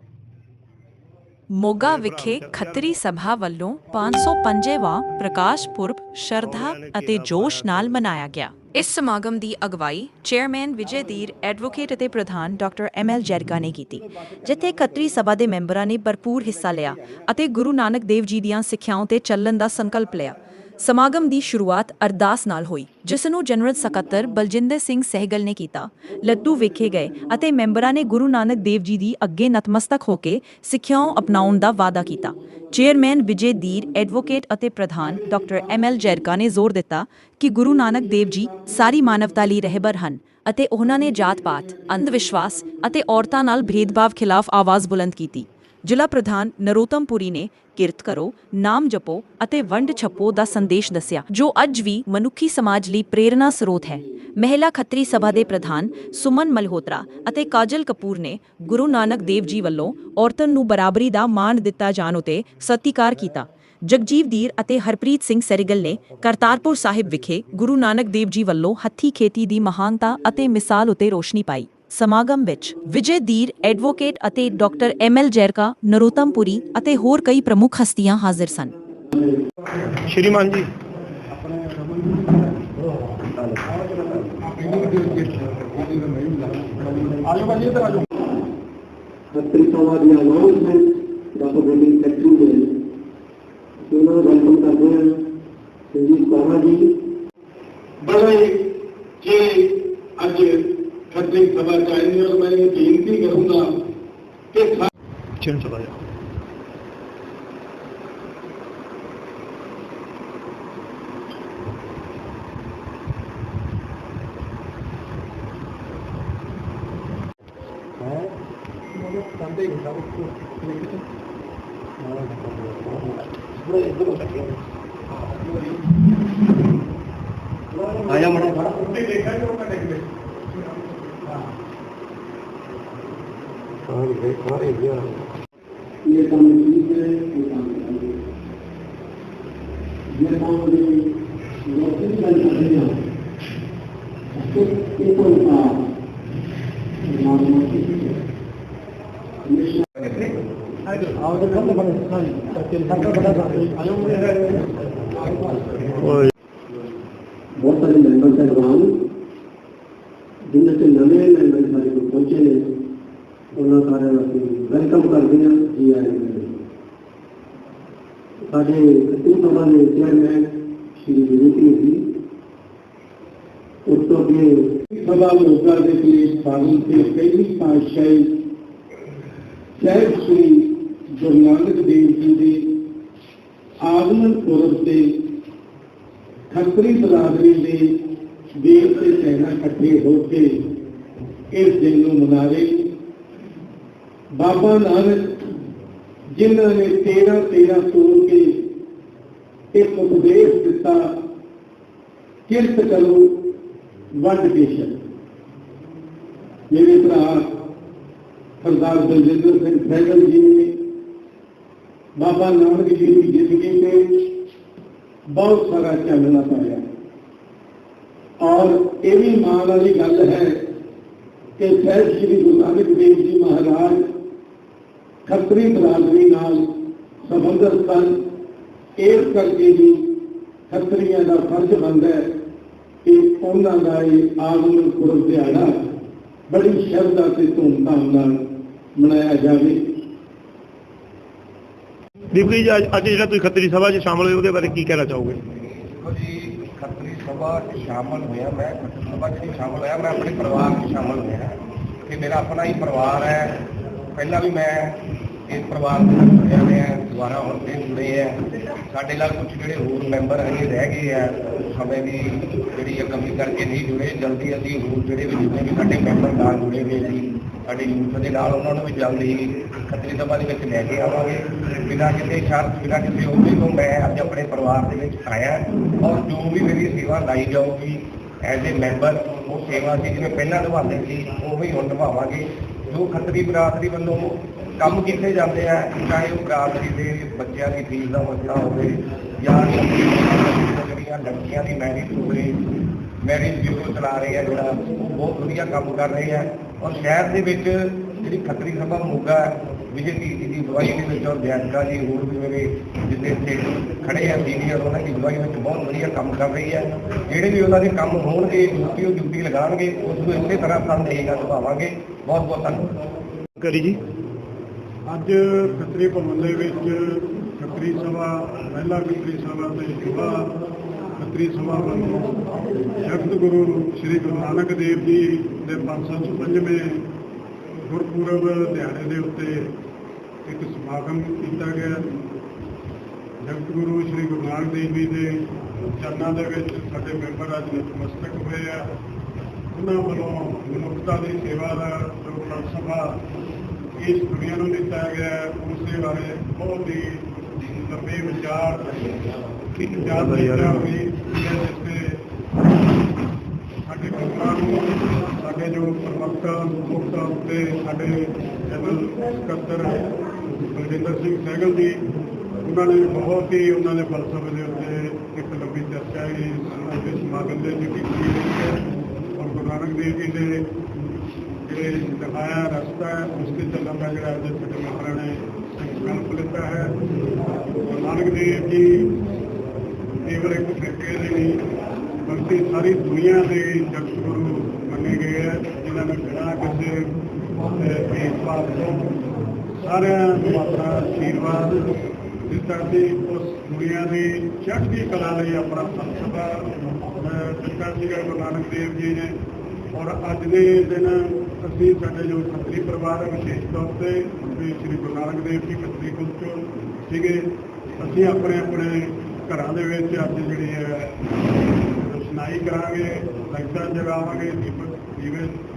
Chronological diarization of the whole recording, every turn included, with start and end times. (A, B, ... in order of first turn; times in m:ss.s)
0:01.5-1:18.7 A
0:01.8-0:02.9 B
0:06.4-0:07.8 B
1:20.0-1:20.7 B
1:21.4-1:22.4 C
1:23.7-1:28.0 C
1:29.3-1:32.6 D
1:33.9-1:35.2 D
1:35.9-1:36.9 D
1:38.0-1:38.6 C
1:39.2-1:40.6 C
1:41.1-1:43.7 C
1:44.5-1:44.9 C
1:45.4-1:45.9 B
2:02.3-2:04.4 E
2:08.0-2:08.9 E
2:13.9-2:15.3 E
2:16.1-2:18.1 D
2:20.2-2:21.0 D
2:21.7-2:22.9 D
2:24.4-2:25.8 D
2:27.2-2:28.1 D
2:29.6-2:29.8 D
2:31.3-2:34.2 D
2:35.2-2:35.7 D
2:35.9-2:36.3 B
2:37.6-2:38.9 D
2:40.5-2:42.7 D
2:43.6-2:46.5 D
2:48.5-2:52.0 D
2:53.9-2:54.7 D
2:54.9-2:58.3 C
2:59.8-3:02.7 C
3:03.8-3:05.1 C
3:06.5-3:08.0 C
3:08.6-3:10.6 C
3:11.5-3:12.8 C
3:14.3-3:15.5 C
3:16.3-3:18.6 C
3:19.7-3:21.1 C
3:22.5-3:23.4 C
3:24.2-3:25.0 C
3:26.7-3:27.4 C
3:28.6-3:30.7 C
3:32.1-3:34.2 C
3:35.3-3:36.8 C
3:38.4-3:40.6 C
3:41.6-3:44.0 C
3:45.2-3:46.7 C
3:47.3-3:48.1 C
3:49.0-3:50.0 C
3:50.7-3:52.2 C
3:53.0-3:55.7 C
3:56.5-3:58.4 C
3:58.9-3:59.8 C
4:02.3-4:05.4 B
4:05.9-4:52.6 E
4:53.2-5:13.0 E
5:13.6-5:14.0 B
5:15.1-5:20.4 F
5:21.2-5:22.3 F
5:23.0-5:27.0 F
5:27.9-5:29.7 F
5:30.4-5:32.0 F
5:33.4-5:35.3 F
5:35.9-5:38.8 F
5:39.7-5:43.2 F
5:44.0-5:49.1 F
5:49.8-5:50.9 B
5:50.0-5:52.2 F
5:53.8-6:02.0 F
6:02.6-6:08.8 F
6:09.4-6:10.6 F
6:11.6-6:16.9 F
6:17.8-6:19.1 F
6:20.3-6:21.5 F
6:22.2-6:27.0 F
6:27.8-6:29.0 F
6:29.8-6:31.9 F
6:32.5-6:39.3 F
6:39.9-6:47.4 F
6:48.0-6:51.1 F
6:52.0-6:55.5 F